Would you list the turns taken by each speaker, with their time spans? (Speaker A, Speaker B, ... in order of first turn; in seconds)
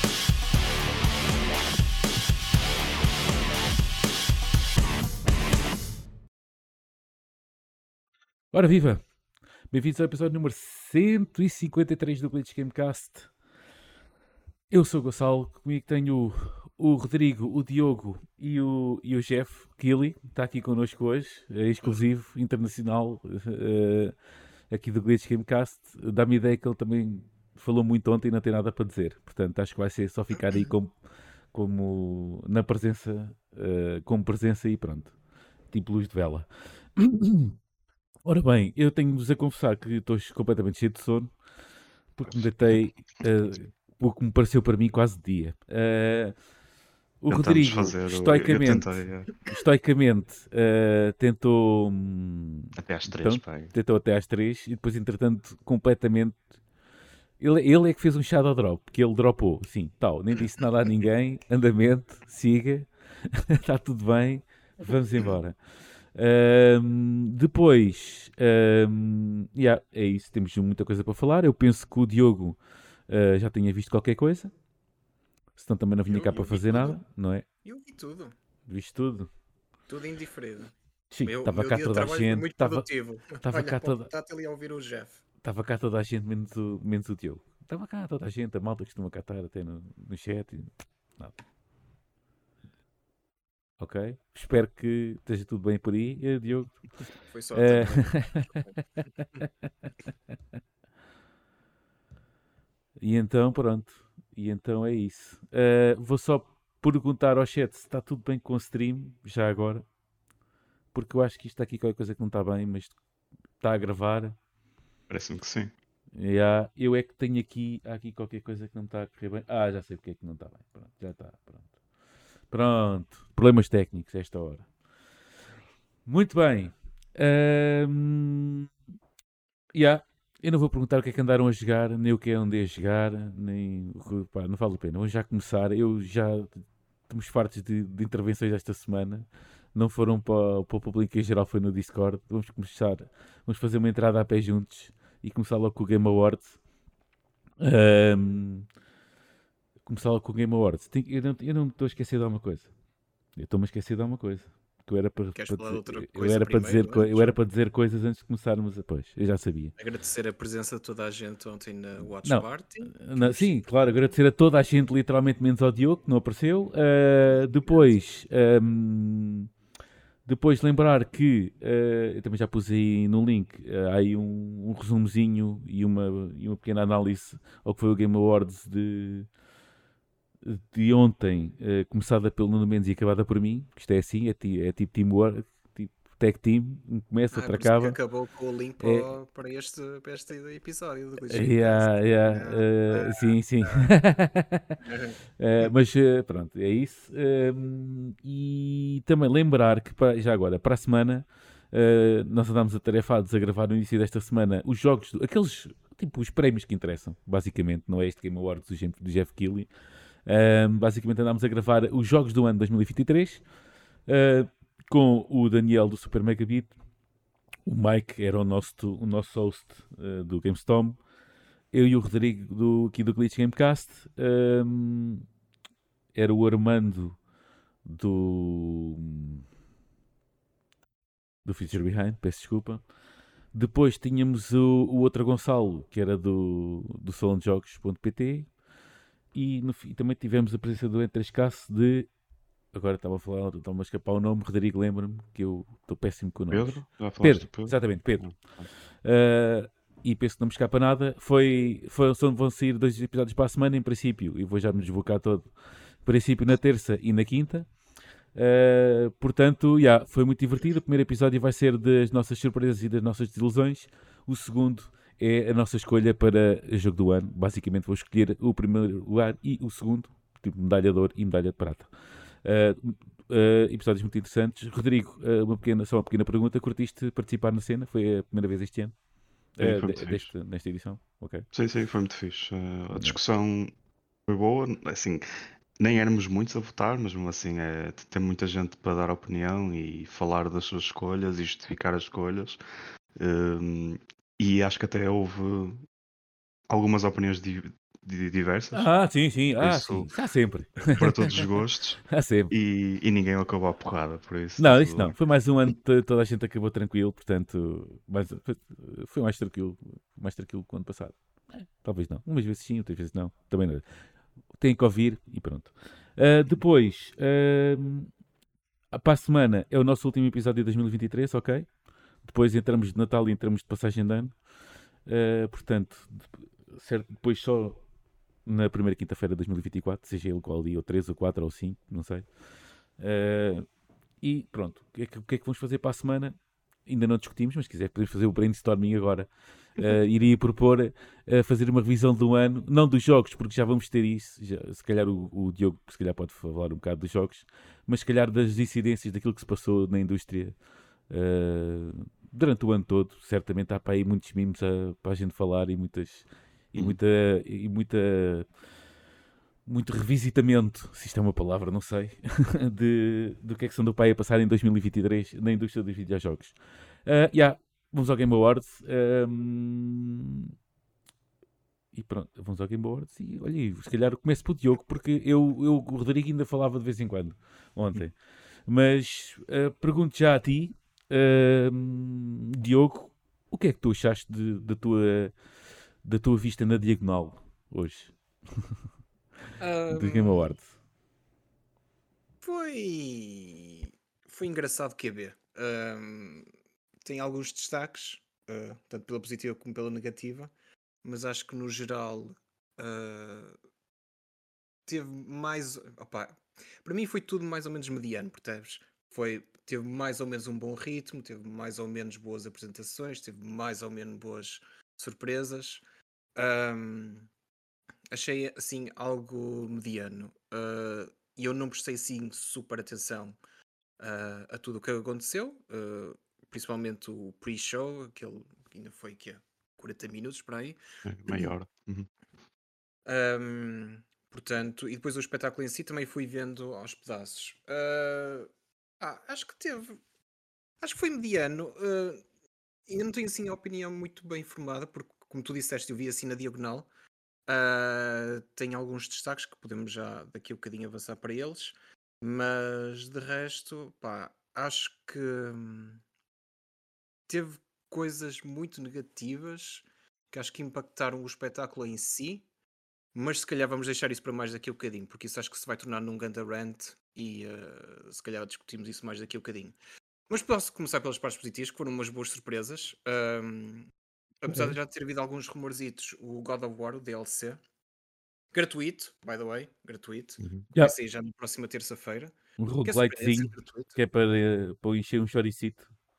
Speaker A: 8.5-9.0, 9.7-13.3, 14.7-24.1, 24.7-31.0, 31.5-35.1, 35.7-37.6, 38.2-41.4, 42.1-46.4, 47.2-56.5, 57.4-74.5, 75.6-77.4, 78.7-79.3, 81.1-84.1, 85.4-91.3, 93.8-99.7, 103.0-109.9, 110.9-113.0, 113.6-114.4, 116.2-121.7, 122.5-124.7, 126.0-128.7, 129.7-146.6, 147.6-148.7, 149.8-152.7, 153.3-159.7, 162.2-169.5, 170.2-179.3, 180.4-188.0, 188.8-189.1, 191.3-194.8, 195.4-209.7, 210.2-213.4, 214.1-216.8, 217.7-221.0, 221.7-225.2, 226.1-227.2, 227.8-229.4, 231.4-232.8, 233.5-238.5, 239.3-242.1, 242.7-248.3, 249.0-257.7, 258.3-278.9, 279.6-281.4, 298.7-301.5, 302.1-302.5, 304.6-318.1, 318.9-321.7, 322.2-324.4, 325.0-327.8, 328.4-332.3, 333.0-333.7, 334.2-350.6, 351.1-358.5, 359.6-370.5, 371.9-385.3, 386.0-388.8, 389.9-390.7, 482.6-485.9
Speaker B: 42.3-42.7, 47.3-49.3, 52.8-53.7, 115.1-115.7, 246.5-248.6, 279.6-280.3, 281.5-283.7, 284.2-285.2, 285.8-292.6, 293.2-295.8, 296.7-298.9, 299.6-300.1, 300.8-305.1, 431.1-432.1
Speaker C: 76.1-77.0, 77.6-78.3, 79.9-85.2, 97.3-98.7, 155.3-157.4, 159.8-163.6, 167.6-168.0, 187.3-193.9, 194.8-195.7, 389.6-390.4, 392.4-396.5, 397.0-400.5, 401.0-403.6, 404.9-415.8, 416.4-417.3, 418.1-423.4, 424.0-430.8, 433.1-438.5, 439.0-440.0, 440.8-442.2, 442.9-446.9, 447.5-456.0, 457.3-462.4, 463.1-469.8, 470.3-477.6, 478.5-483.9